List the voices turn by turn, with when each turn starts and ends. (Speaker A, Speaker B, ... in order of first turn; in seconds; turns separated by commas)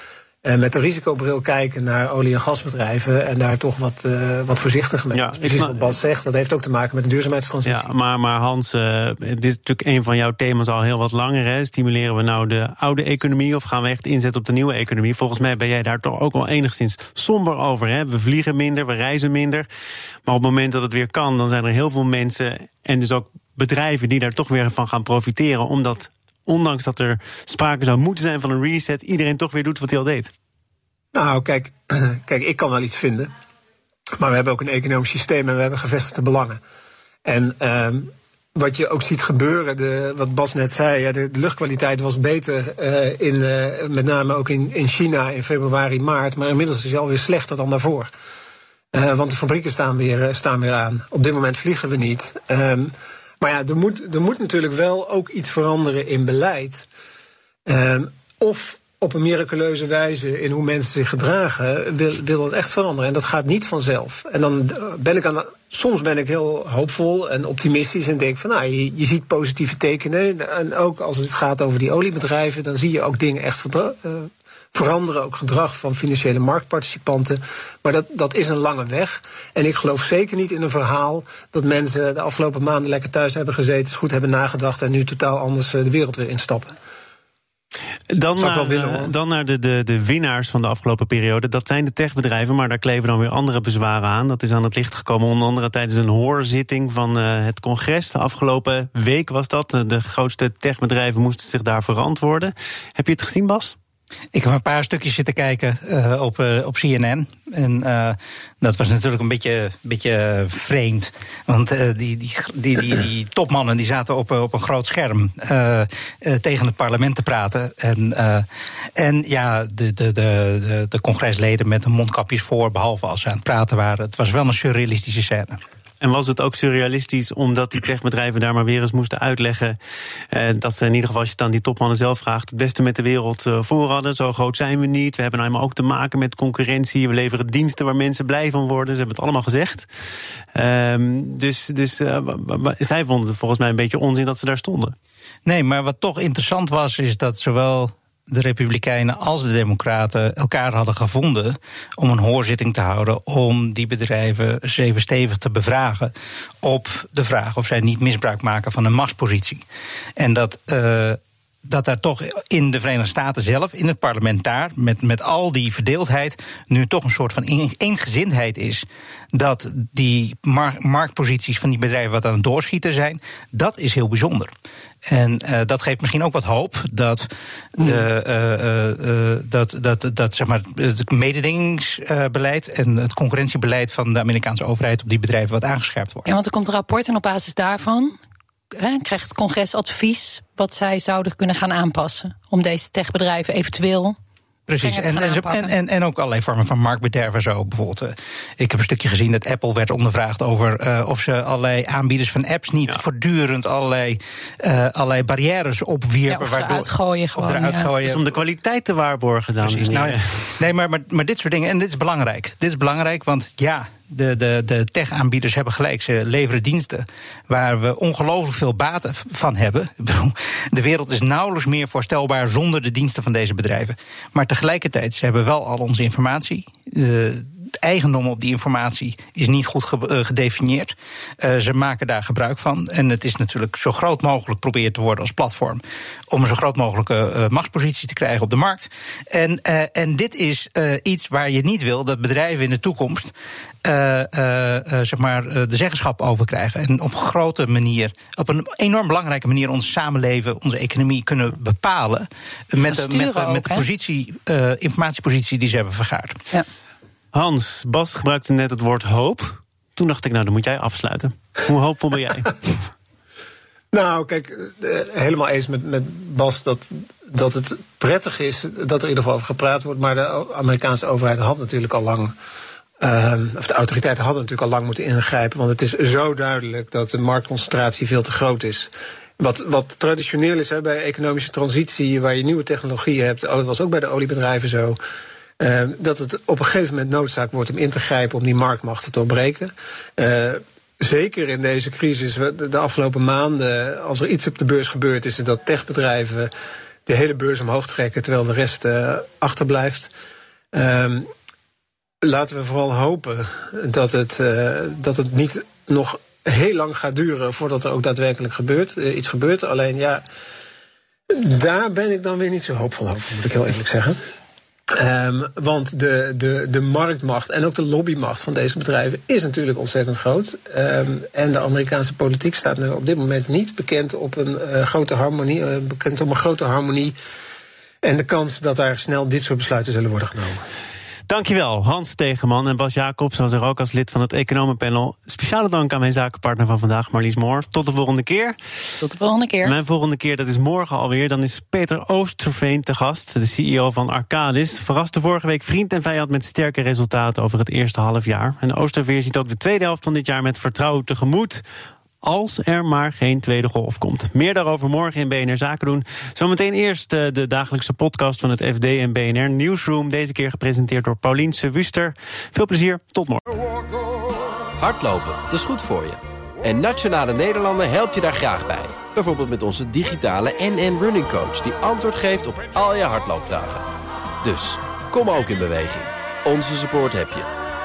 Speaker A: 0.4-7.9, Speaker B: 5.1-5.8, Speaker B: 7.6-19.7, Speaker B: 20.2-30.3, Speaker A: 31.1-33.3, Speaker A: 34.1-36.6, Speaker A: 37.2-48.1, Speaker A: 48.9-56.9, Speaker A: 57.6-86.8, Speaker B: 88.1-103.8, Speaker A: 88.4-89.1, Speaker C: 104.3-125.6, Speaker B: 126.0-129.8, Speaker B: 130.3-139.9, Speaker B: 140.5-144.9, Speaker C: 145.4-159.6, Speaker C: 160.2-174.5, Speaker C: 175.1-186.2, Speaker D: 186.2-188.2, Speaker D: 188.7-194.2, Speaker C: 194.7-208.2, Speaker D: 194.7-195.7, Speaker D: 206.3-207.9, Speaker B: 208.0-210.4, Speaker C: 209.6-243.3, Speaker C: 243.8-256.4, Speaker D: 252.8-253.9, Speaker B: 257.3-262.9, Speaker A: 263.9-272.3, Speaker A: 273.0-285.0, Speaker A: 285.6-296.5, Speaker A: 297.1-300.1, Speaker A: 300.7-301.3, Speaker A: 302.2-310.2, Speaker A: 311.3-314.2, Speaker A: 314.9-327.1, Speaker A: 328.0-330.6, Speaker B: 331.3-338.6, Speaker D: 339.0-339.7, Speaker B: 339.6-351.6, Speaker B: 352.2-363.4, Speaker E: 364.8-373.9, Speaker E: 374.4-377.5